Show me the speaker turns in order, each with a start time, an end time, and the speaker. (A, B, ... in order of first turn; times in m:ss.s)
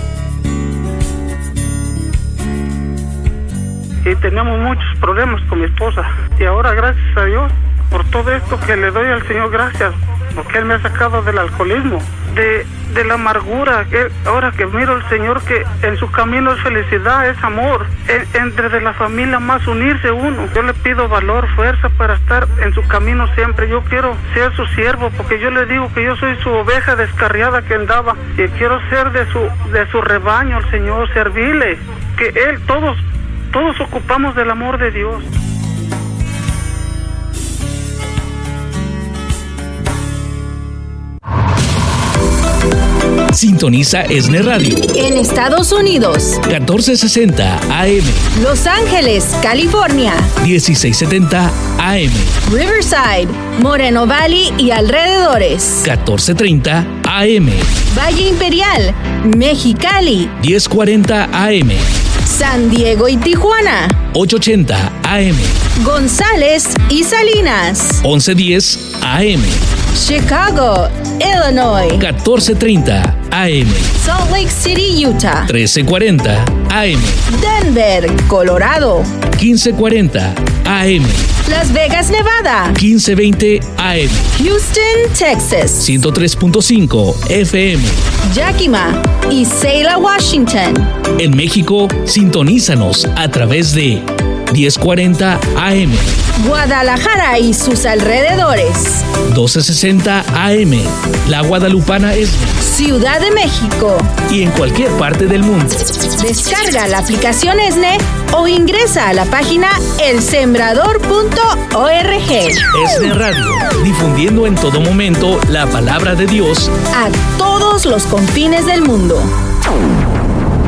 0:04.0-0:35.2 A
0:43.3-0:44.9 B
0:44.9-0:46.4 C
0:46.4-0:48.3 B
0:48.3-0:50.3 C
0:50.4-0:52.4 B
0:52.4-0:55.8 C
0:55.8-0:57.8 B
0:57.9-1:00.3 C
1:00.4-1:01.9 B
1:02.2-1:04.0 C
1:04.1-1:05.6 B
1:05.8-1:08.0 C
1:08.0-1:09.6 B
1:09.9-1:12.0 C
1:12.0-1:13.9 B
1:13.9-1:15.5 C
1:15.5-1:17.2 B
1:17.3-1:19.2 C
1:19.3-1:21.3 B
1:21.4-1:22.8 C
1:22.8-1:24.3 B
1:24.3-1:25.8 C
1:25.8-1:28.0 B
1:28.2-1:30.9 C
1:31.2-1:36.2 B
1:36.4-1:39.1 C
1:39.2-1:42.6 B
1:42.6-1:44.1 C
1:44.3-1:46.0 B
1:46.2-1:52.6 C
1:52.7-1:56.7 B
1:56.9-1:59.3 C